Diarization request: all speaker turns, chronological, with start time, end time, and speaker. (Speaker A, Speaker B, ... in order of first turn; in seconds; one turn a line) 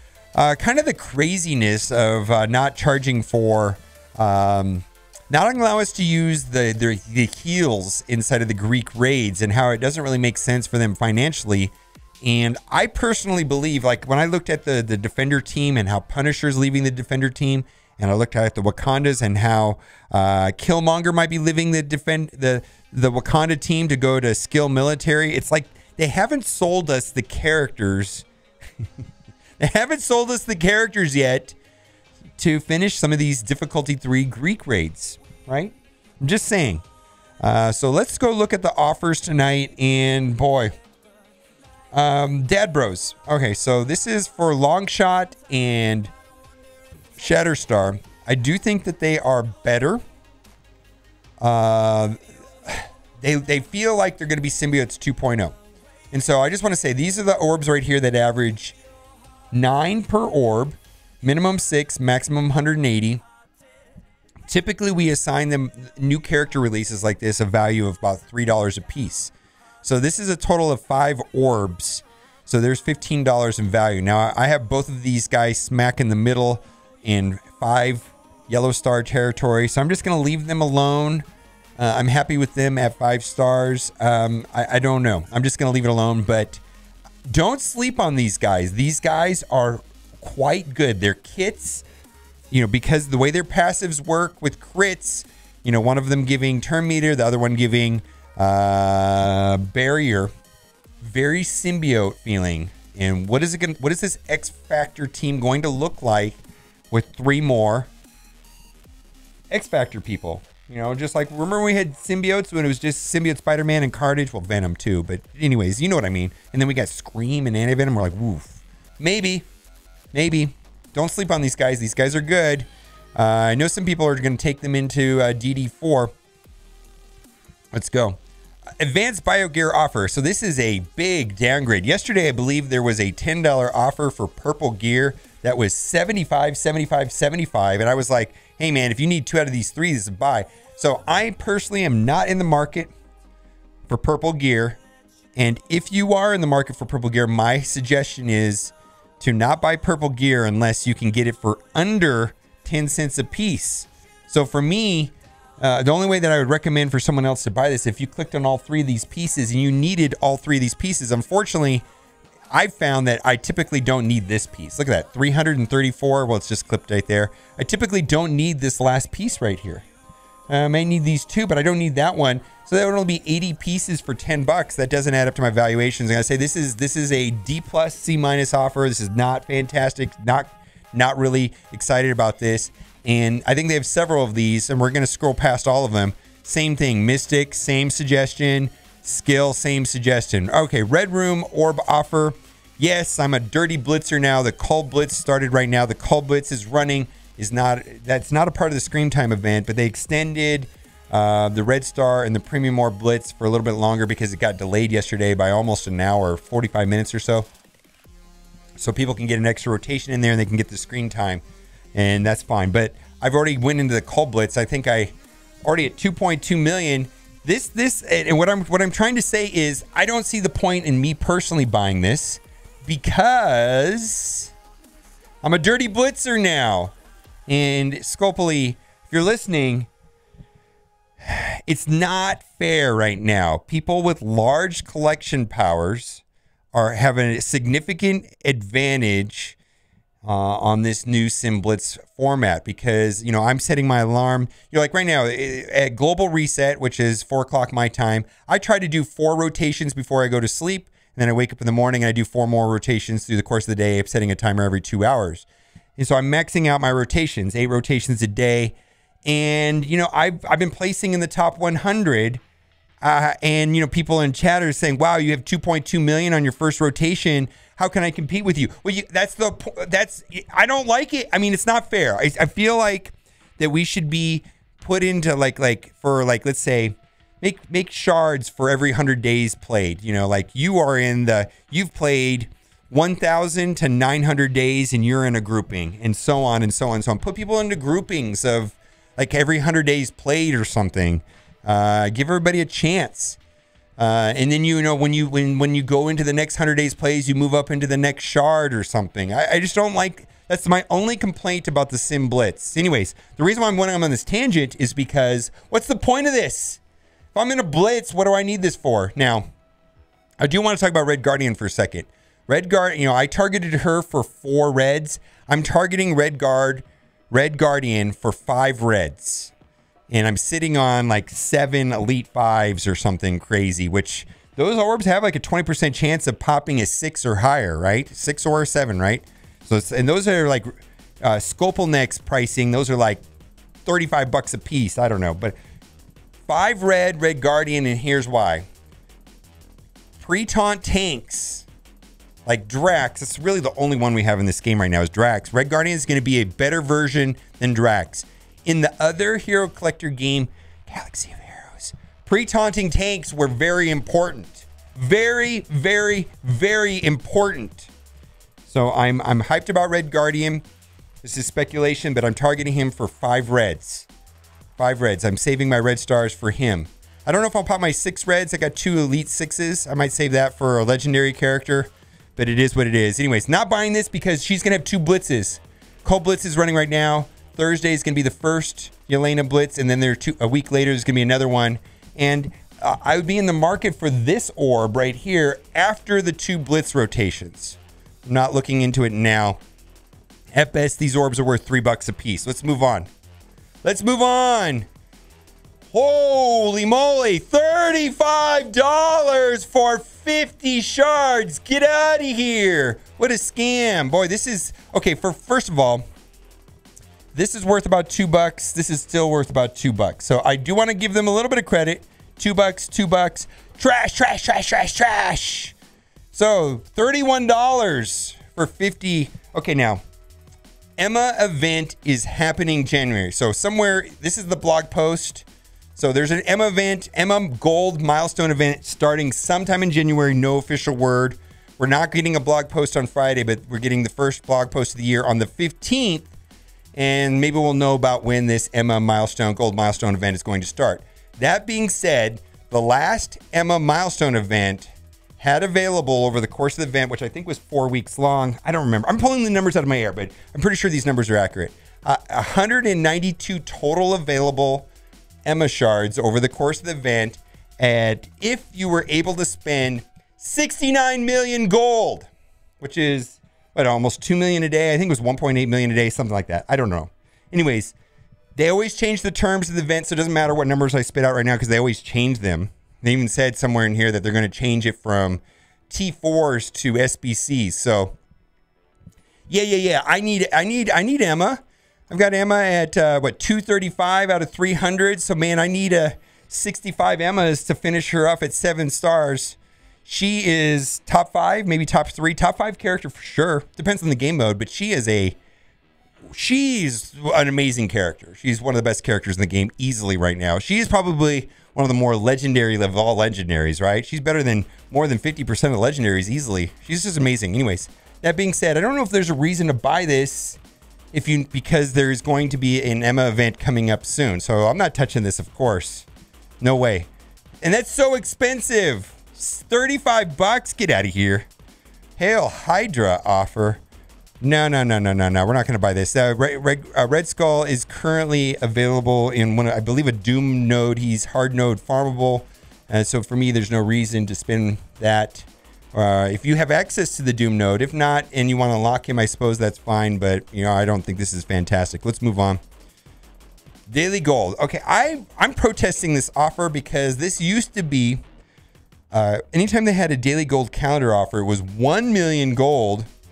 Speaker A: 0.3-28.2
Speaker A: 29.6-31.6
Speaker A: 32.4-36.8
Speaker A: 37.4-40.7
Speaker A: 41.9-46.1
Speaker A: 47.2-50.0
Speaker A: 51.4-55.5
Speaker A: 56.1-58.8
Speaker A: 59.5-63.2
Speaker A: 64.5-81.2
Speaker A: 81.8-86.6
Speaker A: 87.3-91.8
Speaker A: 92.5-100.3
Speaker A: 101.0-107.9
Speaker A: 109.5-119.5
Speaker A: 120.1-126.1
Speaker A: 127.7-128.2
Speaker A: 128.8-142.9
Speaker A: 143.9-144.8
Speaker A: 145.4-161.8
Speaker A: 162.5-169.8
Speaker A: 170.5-207.5
Speaker A: 208.8-211.4
Speaker A: 211.9-224.5
Speaker A: 225.4-226.9
Speaker A: 227.5-229.9
Speaker A: 231.2-239.6
Speaker A: 240.2-255.4
Speaker A: 256.0-262.4
Speaker A: 263.0-293.4
Speaker A: 294.0-306.8
Speaker A: 307.3-309.5
Speaker A: 310.4-319.5
Speaker A: 320.1-330.7
Speaker A: 331.2-333.2
Speaker A: 333.8-335.5
Speaker A: 336.5-338.6
Speaker A: 340.2-341.6
Speaker A: 342.4-357.9
Speaker A: 358.7-360.6
Speaker A: 361.2-364.1
Speaker A: 364.8-389.6
Speaker A: 390.5-393.1
Speaker A: 393.8-394.9
Speaker A: 395.9-406.0
Speaker A: 407.3-415.8
Speaker A: 416.3-420.0
Speaker A: 421.0-436.3
Speaker A: 436.9-454.9
Speaker A: 455.4-462.3
Speaker A: 462.8-467.9
Speaker A: 468.6-478.2
Speaker A: 479.5-495.4
Speaker A: 496.3-510.6
Speaker A: 511.1-516.1
Speaker A: 516.6-517.1
Speaker A: 517.6-521.5
Speaker A: 522.2-523.8
Speaker A: 524.4-542.6
Speaker A: 543.9-548.2
Speaker A: 549.1-553.1